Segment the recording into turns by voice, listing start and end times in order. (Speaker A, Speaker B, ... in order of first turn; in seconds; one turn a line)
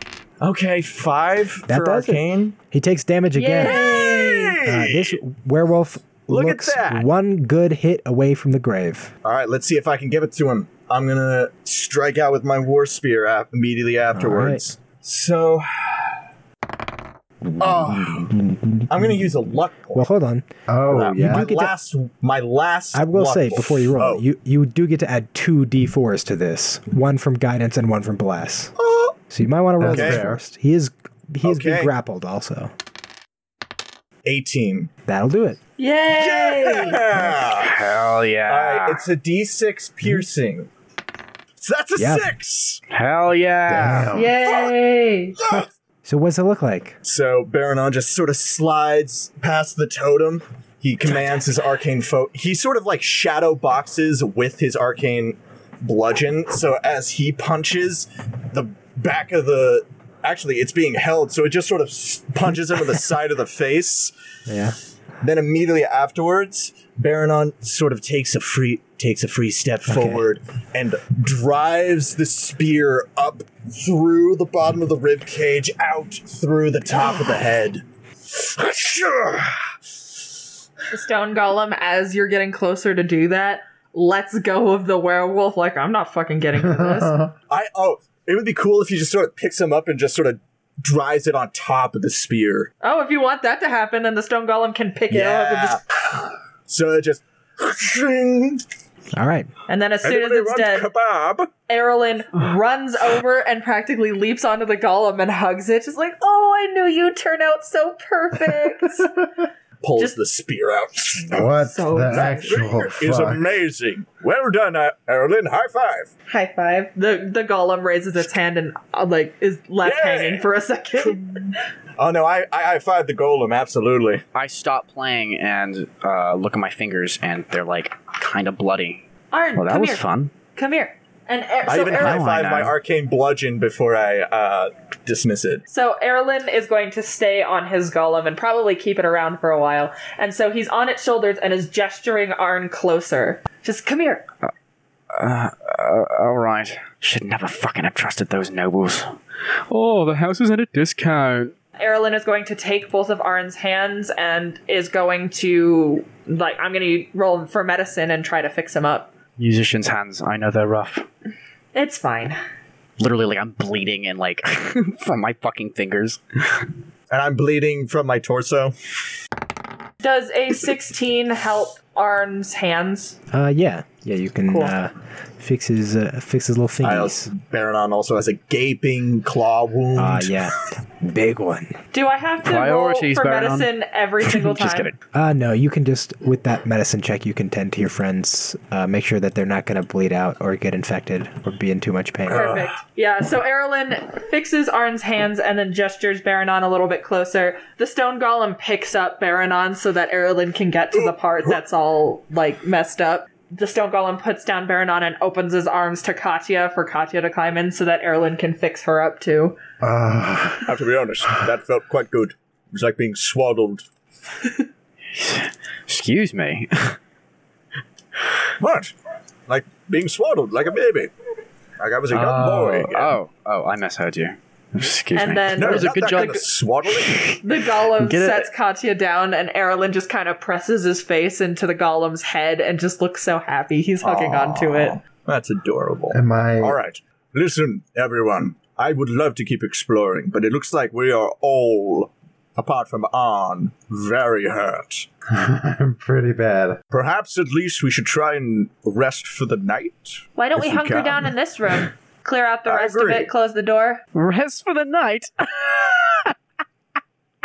Speaker A: 0.4-2.5
Speaker B: 1.7-3.9
Speaker C: 3.3-4.6
Speaker A: 3.6-5.2
Speaker B: 4.6-9.1
Speaker A: 6.3-7.1
Speaker A: 9.2-16.2
Speaker B: 14.1-14.6
Speaker B: 17.4-18.6
Speaker A: 17.6-18.3
Speaker A: 18.9-20.1
Speaker B: 19.9-20.4
Speaker D: 20.7-21.5
Speaker A: 20.9-24.2
Speaker B: 21.1-21.7
Speaker B: 22.9-28.7
Speaker A: 28.8-29.1
Speaker B: 29.3-32.7
Speaker D: 29.8-30.4
Speaker A: 29.9-30.2
Speaker A: 31.4-31.9
Speaker A: 34.2-34.9
Speaker B: 35.1-35.6
Speaker C: 35.8-37.0
Speaker A: 36.1-40.7
Speaker E: 37.4-39.0
Speaker A: 41.6-42.8
Speaker B: 42.0-42.3
Speaker E: 42.9-44.1
Speaker D: 43.7-44.4
Speaker C: 44.1-45.4
Speaker A: 45.4-45.7
Speaker B: 45.5-47.0
Speaker A: 47.0-64.1
Speaker B: 64.5-64.8
Speaker A: 65.2-80.1
Speaker B: 69.9-70.2
Speaker C: 76.9-77.5
Speaker C: 80.9-87.2
Speaker D: 86.6-87.3
Speaker A: 87.5-92.7
Speaker C: 92.8-95.8
Speaker A: 95.1-98.6
Speaker B: 99.1-99.5
Speaker C: 99.7-100.9
Speaker A: 100.0-101.5
Speaker C: 101.7-109.3
Speaker A: 109.8-111.5
Speaker D: 111.3-113.4
Speaker C: 111.4-112.5
Speaker A: 112.1-116.1
Speaker C: 116.3-121.6
Speaker A: 119.8-121.2
Speaker A: 122.0-124.2
Speaker E: 124.3-130.3
Speaker C: 129.3-132.2
Speaker A: 131.6-135.6
Speaker E: 131.9-132.8
Speaker C: 135.7-144.2
Speaker E: 145.1-149.2
Speaker E: 149.7-151.5
Speaker C: 151.8-159.1
Speaker E: 159.4-161.1
Speaker C: 161.7-162.4
Speaker E: 163.0-166.7
Speaker A: 167.1-168.7
Speaker C: 170.0-173.2
Speaker B: 173.3-177.3
Speaker C: 174.5-174.7
Speaker A: 176.8-180.5
Speaker B: 179.9-181.8
Speaker C: 181.9-184.9
Speaker E: 182.4-183.7
Speaker E: 184.2-184.9
Speaker B: 185.1-192.5
Speaker A: 192.3-192.8
Speaker C: 192.3-209.6
Speaker A: 200.9-201.6
Speaker D: 209.8-210.7
Speaker A: 210.7-213.9
Speaker E: 215.1-217.0
Speaker A: 218.6-218.9
Speaker A: 219.5-221.1
Speaker A: 221.8-223.2
Speaker E: 222.1-228.5
Speaker C: 225.2-226.4
Speaker A: 225.6-227.4
Speaker C: 227.4-235.0
Speaker A: 234.0-245.1
Speaker D: 236.1-236.8
Speaker D: 245.3-246.8
Speaker A: 246.9-251.9
Speaker C: 250.3-254.0
Speaker A: 252.7-253.3
Speaker E: 254.1-256.3